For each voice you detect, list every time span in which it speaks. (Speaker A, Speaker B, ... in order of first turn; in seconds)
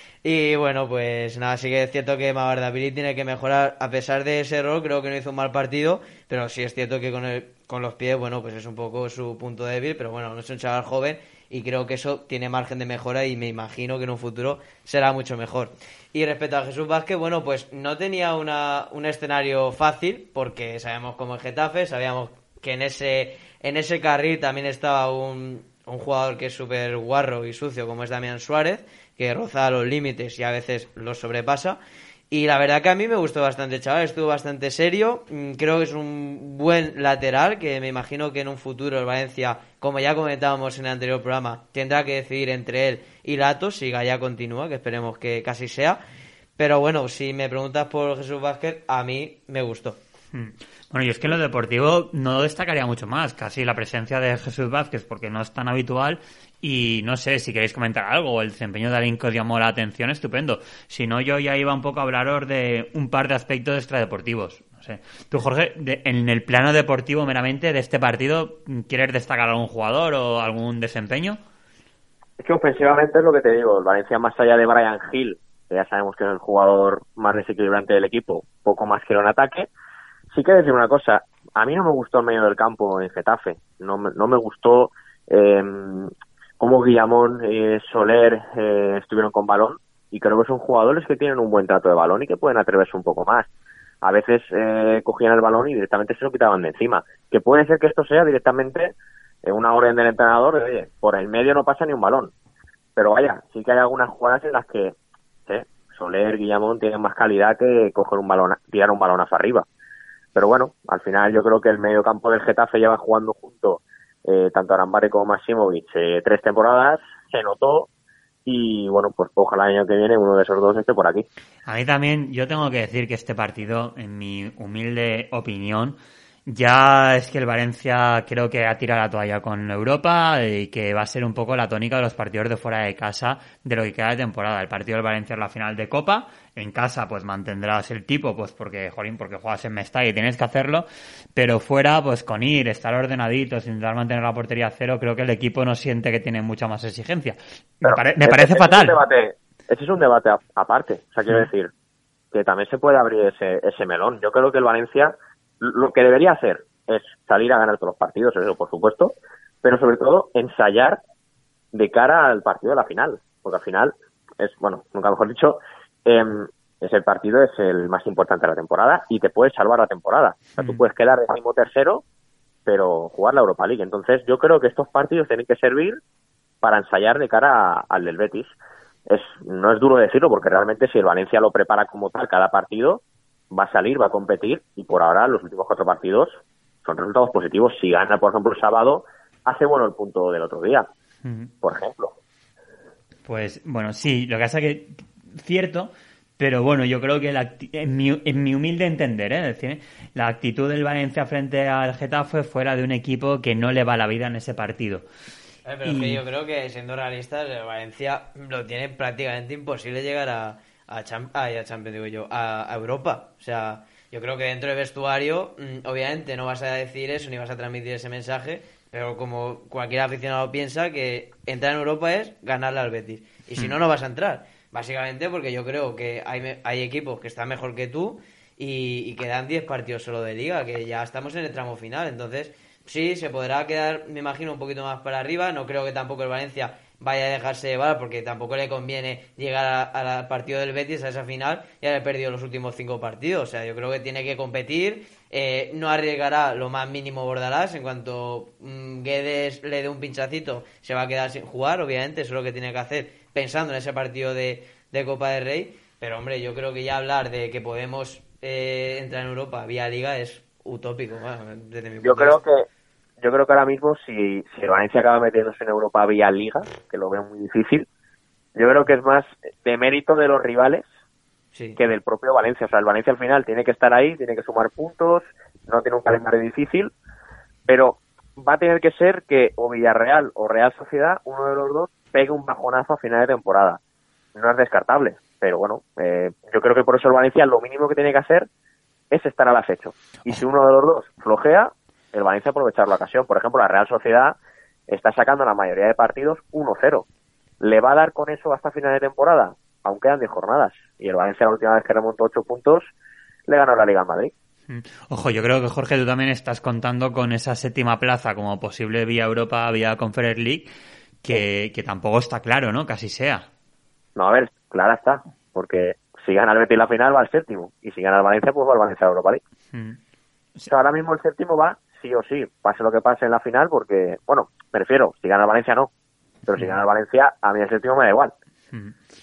Speaker A: 0.2-31.8, 32.3-46.0, 46.6-50.0, 205.7-262.4, 271.5-271.8
Speaker B: 50.3-71.4, 121.7-149.0, 191.2-191.5, 193.3-205.1, 205.8-206.2, 304.7-310.7, 311.2-313.5, 319.7-320.0
Speaker C: 72.4-79.7, 80.3-93.5, 94.0-102.3, 103.0-105.0, 105.5-109.7, 110.3-117.9, 118.5-121.2, 147.8-151.7, 152.3-161.0, 161.7-172.0, 172.7-176.0, 176.6-178.5, 179.1-190.9, 191.6-192.2, 262.0-262.7, 263.2-267.9, 268.6-270.9, 271.8-276.9, 277.7-283.8, 284.4-288.5, 289.1-294.4, 294.9-297.1, 297.6-302.9, 303.5-304.3, 314.2-319.4, 320.7-325.9, 326.5-328.3